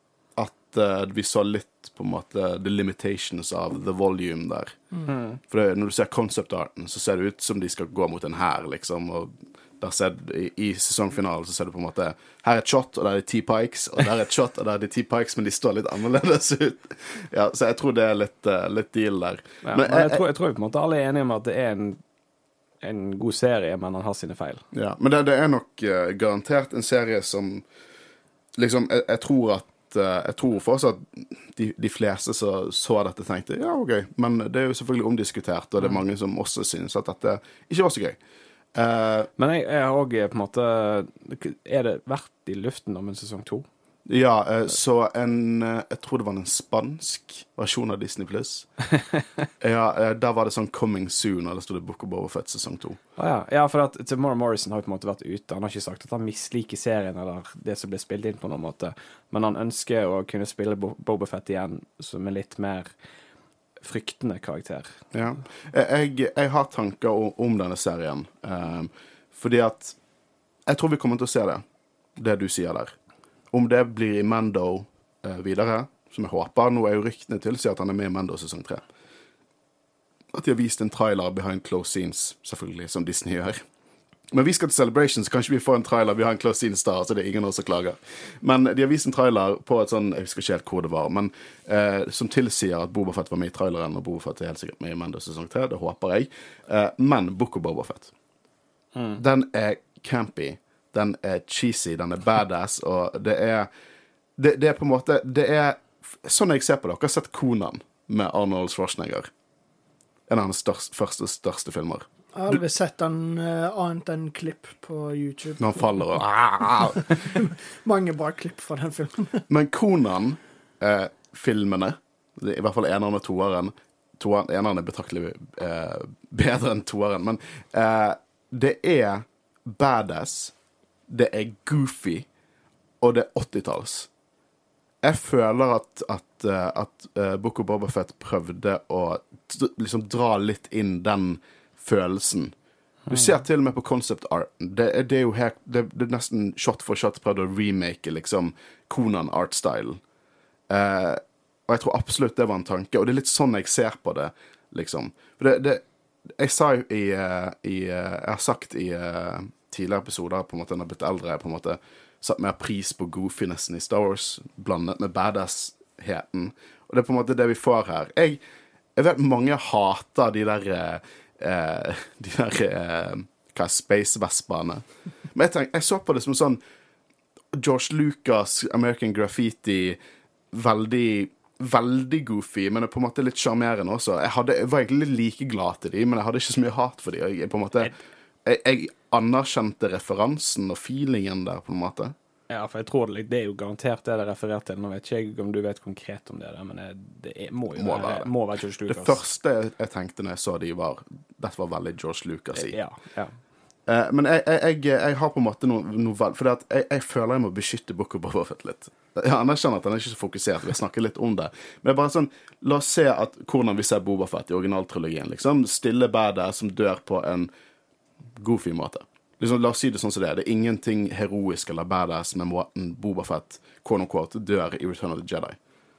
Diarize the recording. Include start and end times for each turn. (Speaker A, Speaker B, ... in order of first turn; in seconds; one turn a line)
Speaker A: 0.3-4.8
Speaker B: 5.1-5.4
Speaker A: 5.4-20.2
Speaker B: 19.6-22.0
Speaker B: 22.8-24.6
Speaker A: 24.7-27.6
Speaker A: 28.6-38.2
Speaker A: 38.7-39.3
Speaker B: 39.4-43.6
Speaker A: 44.0-48.7
Speaker A: 49.6-53.0
Speaker B: 53.2-62.9
Speaker B: 63.8-65.0
Speaker A: 65.1-70.0
Speaker A: 70.7-71.6
Speaker A: 72.2-72.9
Speaker A: 73.5-78.8
Speaker A: 80.3-83.6
Speaker A: 84.3-98.1
Speaker B: 98.9-99.2
Speaker A: 99.2-103.7
Speaker A: 104.4-109.3
Speaker A: 110.3-112.0
Speaker C: 112.3-116.0
Speaker A: 115.6-117.4
Speaker C: 116.6-119.5
Speaker A: 119.5-130.5
Speaker A: 131.1-132.3
Speaker A: 133.0-134.1
Speaker A: 135.0-142.5
Speaker A: 143.1-150.0
Speaker A: 150.7-155.8
Speaker A: 156.3-168.4
Speaker A: 168.9-176.6
Speaker A: 177.5-180.0
Speaker A: 180.5-187.9
Speaker A: 188.4-192.1
Speaker B: 192.5-199.2
Speaker A: 197.7-198.3
Speaker A: 198.9-202.8
Speaker B: 202.5-203.3
Speaker A: 203.9-217.5
Speaker A: 218.4-225.6